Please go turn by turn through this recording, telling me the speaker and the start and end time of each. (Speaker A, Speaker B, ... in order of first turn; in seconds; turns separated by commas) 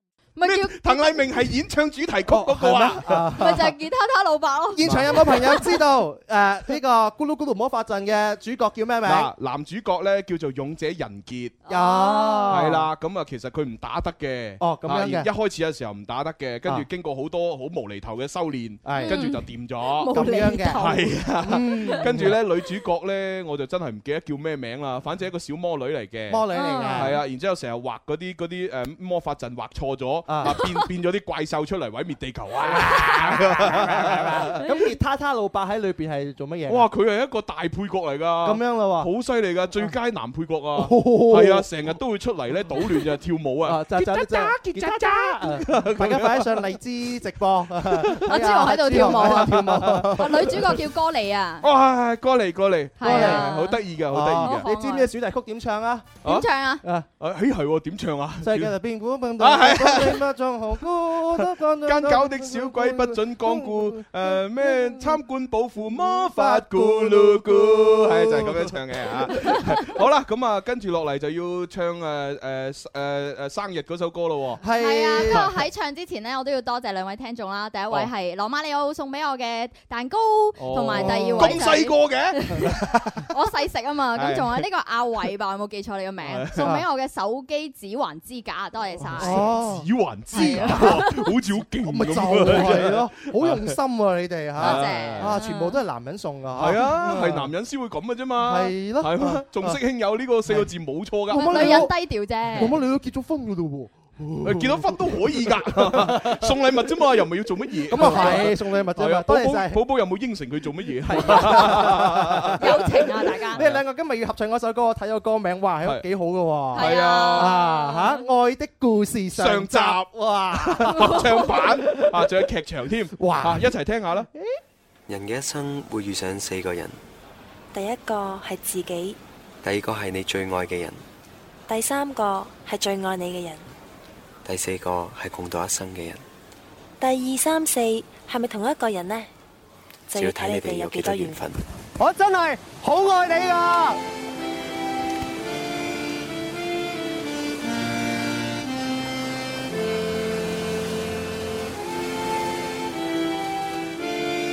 Speaker A: 0.3-1.4, Speaker B: 0.4-3.2, Speaker C: 2.3-3.7, Speaker A: 3.4-5.8, Speaker C: 4.7-9.3, Speaker B: 4.8-5.6, Speaker B: 9.0-11.6, Speaker A: 11.6-12.6, Speaker C: 11.7-12.9, Speaker B: 12.5-20.1, Speaker C: 14.6-15.3, Speaker C: 18.8-19.3, Speaker A: 18.9-21.2, Speaker C: 20.1-22.4, Speaker B: 20.7-34.6, Speaker C: 26.3-27.2, Speaker A: 26.5-27.2, Speaker C: 30.3-30.6, Speaker C: 32.6-36.9, Speaker B: 36.7-46.8, Speaker C: 38.4-39.1, Speaker C: 40.8-41.7, Speaker C: 43.6-50.7, Speaker B: 47.8-48.3, Speaker A: 48.3-51.6, Speaker B: 48.9-50.1, Speaker B: 51.6-54.6, Speaker A: 53.0-53.8, Speaker C: 53.0-56.2, Speaker A: 54.4-55.1, Speaker A: 56.2-56.8, Speaker B: 57.2-58.7, Speaker C: 58.4-65.1, Speaker B: 59.4-60.3, Speaker B: 61.3-74.6, Speaker C: 66.0-69.9, Speaker C: 74.6-75.5, Speaker A: 74.8-82.8, Speaker B: 80.6-82.8, Speaker C: 80.9-81.7, Speaker C: 82.7-83.0, Speaker A: 83.3-89.4, Speaker B: 84.2-84.6, Speaker B: 86.2-86.7, Speaker C: 86.6-86.8, Speaker C: 89.0-91.0, Speaker B: 89.2-93.8, Speaker A: 90.3-91.3, Speaker C: 91.8-97.5, Speaker B: 94.6-95.4, Speaker A: 94.6-95.8, Speaker B: 96.5-101.9, Speaker C: 98.4-99.8, Speaker C: 101.3-101.9, Speaker A: 101.3-102.8, Speaker C: 102.5-106.5, Speaker B: 104.4-112.8, Speaker C: 107.9-109.8, Speaker A: 108.0-108.4, Speaker C: 111.0-122.3, Speaker A: 111.3-111.5, Speaker A: 112.6-113.6, Speaker B: 113.5-113.8, Speaker B: 116.7-117.6, Speaker A: 116.7-118.2, Speaker B: 119.3-124.3, Speaker C: 123.2-123.7, Speaker D: 125.1-127.0, Speaker E: 127.7-129.2, Speaker D: 129.6-131.0, Speaker E: 131.7-133.7, Speaker D: 134.4-136.2, Speaker E: 137.0-139.3, Speaker E: 140.1-141.6, Speaker D: 140.1-141.6